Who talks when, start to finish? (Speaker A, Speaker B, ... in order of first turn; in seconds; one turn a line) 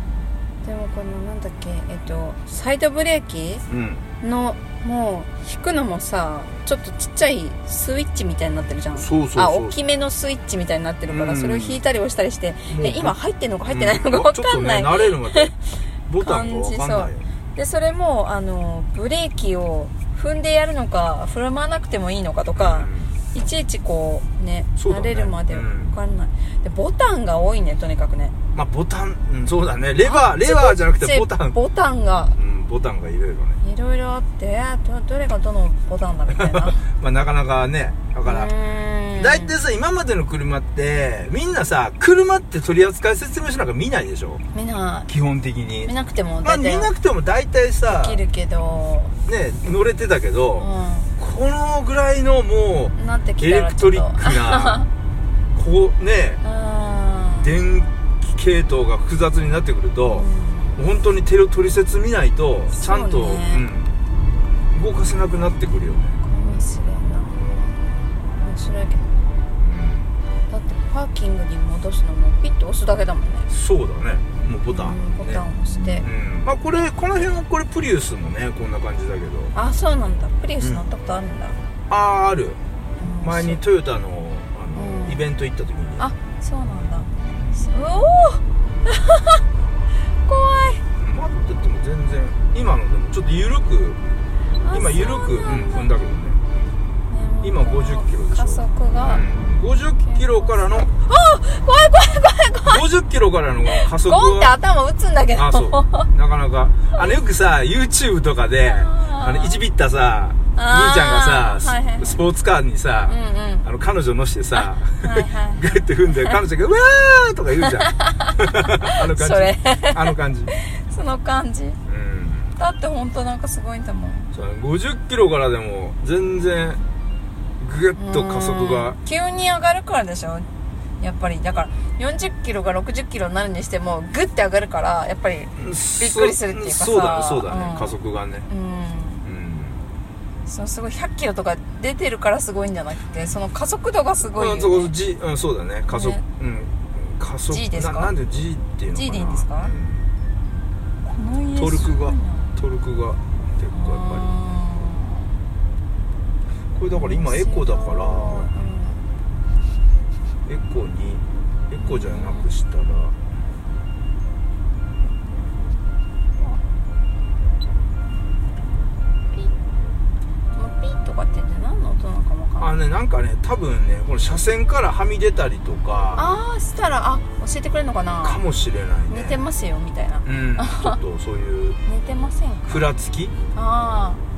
Speaker A: 0.6-3.6
Speaker B: 3.7-4.0
Speaker A: 4.2-15.5
Speaker B: 8.9-9.8
Speaker B: 11.1-11.8
Speaker B: 12.7-13.1
Speaker B: 13.7-15.5
Speaker B: 16.1-17.2
Speaker A: 16.2-28.3
Speaker B: 22.6-23.1
Speaker B: 24.8-25.9
Speaker B: 28.5-31.6
Speaker A: 30.0-32.4
Speaker B: 32.4-33.6
Speaker A: 33.6-36.8
Speaker B: 36.3-38.5
Speaker A: 38.2-39.5
Speaker B: 39.2-44.4
Speaker A: 44.5-45.1
Speaker B: 45.1-45.9
Speaker A: 45.9-46.9
Speaker B: 46.4-48.2
Speaker A: 47.9-49.1
Speaker B: 49.3-50.7
Speaker A: 50.6-51.1
Speaker B: 51.2-54.9
Speaker A: 53.0-54.9
Speaker B: 55.5-56.4
Speaker A: 56.4-57.5
Speaker B: 57.4-63.9
Speaker A: 60.0-60.7
Speaker A: 62.7-63.6
Speaker B: 64.7-66.2
Speaker A: 66.2-67.5
Speaker A: 68.4-69.1
Speaker B: 69.6-70.1
Speaker A: 70.5-73.5
Speaker B: 73.5-79.5
Speaker A: 74.7-76.1
Speaker A: 79.5-81.6
Speaker B: 81.9-82.6
Speaker A: 83.0-83.6
Speaker B: 83.2-86.1
Speaker A: 84.7-85.2
Speaker A: 86.0-89.4
Speaker A: 90.2-90.8
Speaker B: 91.0-94.0
Speaker A: 94.6-95.9
Speaker B: 94.7-96.4
Speaker A: 97.1-99.2
Speaker B: 97.4-100.9
Speaker A: 100.0-102.8
Speaker B: 102.7-104.5
Speaker A: 103.7-106.1
Speaker B: 105.3-120.5
Speaker A: 108.6-109.6
Speaker A: 110.5-112.2
Speaker A: 113.1-113.7
Speaker A: 114.5-116.4
Speaker A: 117.6-121.8
Speaker B: 121.9-122.5
Speaker A: 122.6-124.3
Speaker B: 124.3-126.8
Speaker B: 127.6-129.0
Speaker A: 128.0-130.4
Speaker A: 131.0-138.0
Speaker B: 135.6-138.5
Speaker A: 138.5-139.2
Speaker B: 139.2-139.8
Speaker A: 140.4-144.9
Speaker B: 144.4-150.1
Speaker A: 145.9-146.2
Speaker A: 147.5-148.1
Speaker A: 148.9-149.7
Speaker A: 151.0-152.5
Speaker B: 151.6-154.3
Speaker A: 153.7-155.3
Speaker B: 156.7-158.5
Speaker A: 156.9-159.0
Speaker B: 160.4-163.1
Speaker A: 161.8-162.5
Speaker A: 170.6-172.8
Speaker B: 172.6-176.4
Speaker A: 176.1-178.4
Speaker B: 178.2-179.4
Speaker A: 179.1-181.0
Speaker B: 180.2-181.8
Speaker A: 181.8-182.9
Speaker B: 182.7-183.3
Speaker A: 183.5-184.2